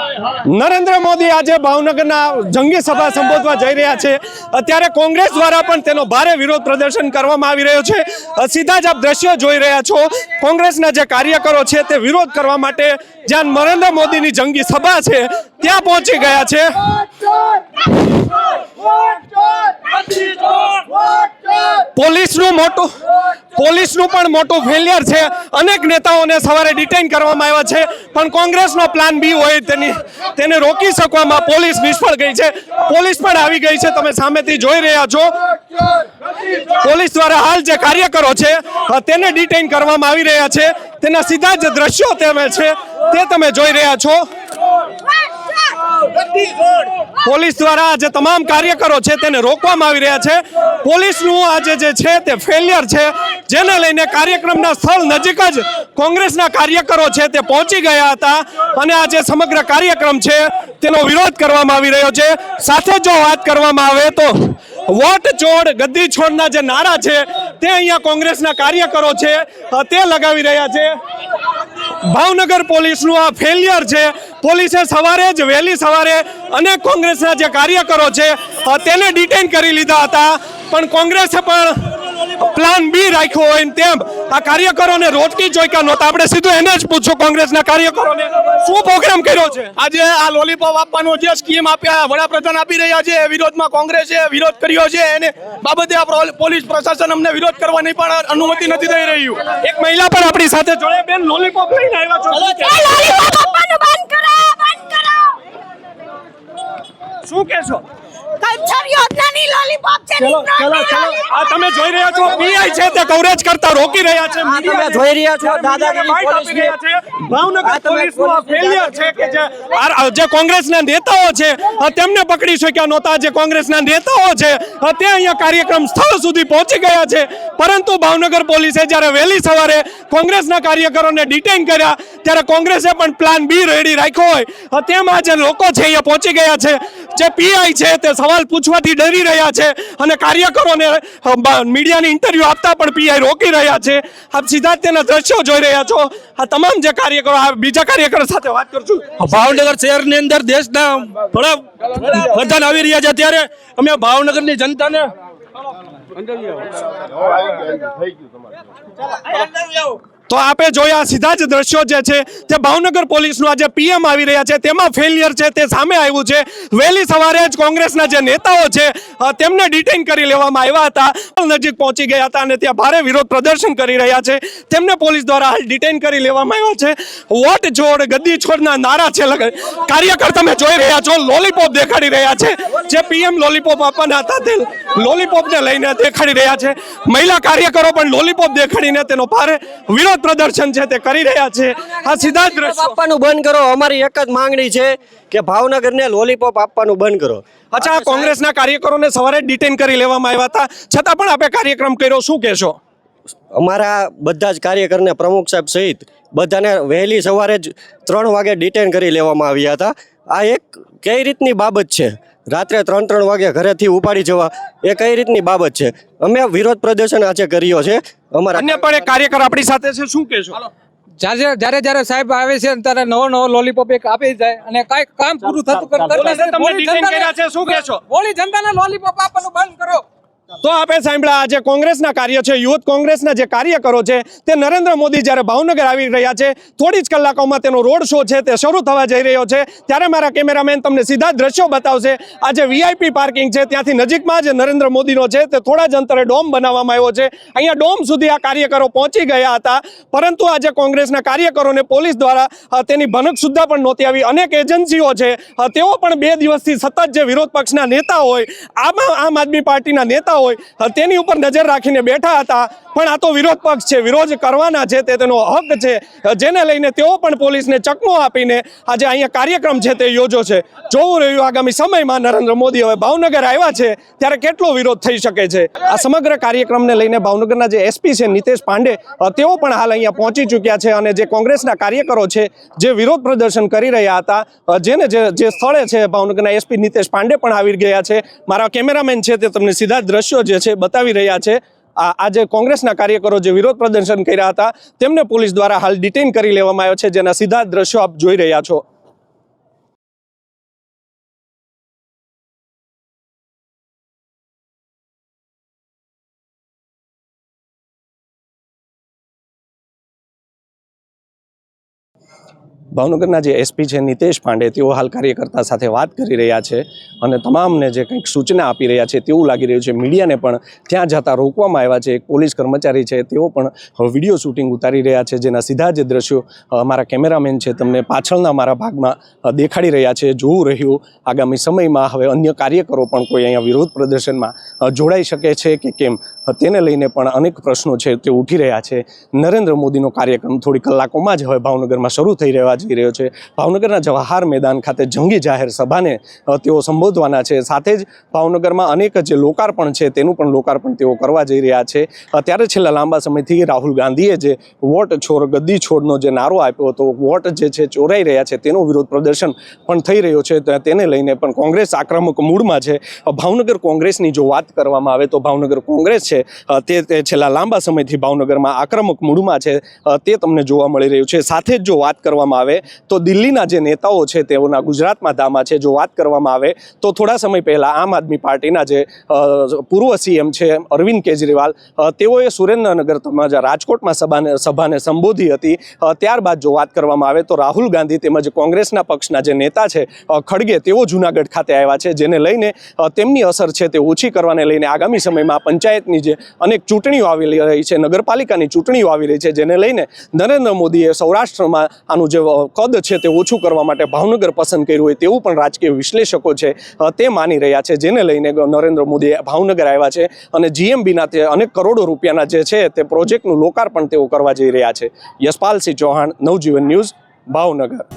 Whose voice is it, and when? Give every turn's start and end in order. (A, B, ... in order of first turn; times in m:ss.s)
0:00.4-0:17.0 A
0:21.7-0:22.9 A
0:23.5-0:35.3 A
0:36.7-0:44.2 A
0:47.2-1:10.9 A
1:12.0-1:29.8 A
1:29.8-1:39.4 B
1:36.9-1:37.4 C
1:39.5-1:43.0 A
1:42.5-1:45.4 C
1:47.2-1:47.8 A
1:48.4-1:51.2 C
1:50.2-2:29.6 A
1:54.4-1:56.7 D
1:57.6-1:58.7 D
2:29.2-2:35.1 B
2:40.3-3:13.0 A
3:12.7-3:17.4 D
3:17.7-3:22.8 A
3:23.5-3:38.8 D
3:38.5-3:40.6 A
3:41.2-3:50.0 E
3:46.0-3:48.0 A
3:50.6-4:58.8 A
5:12.9-6:58.0 A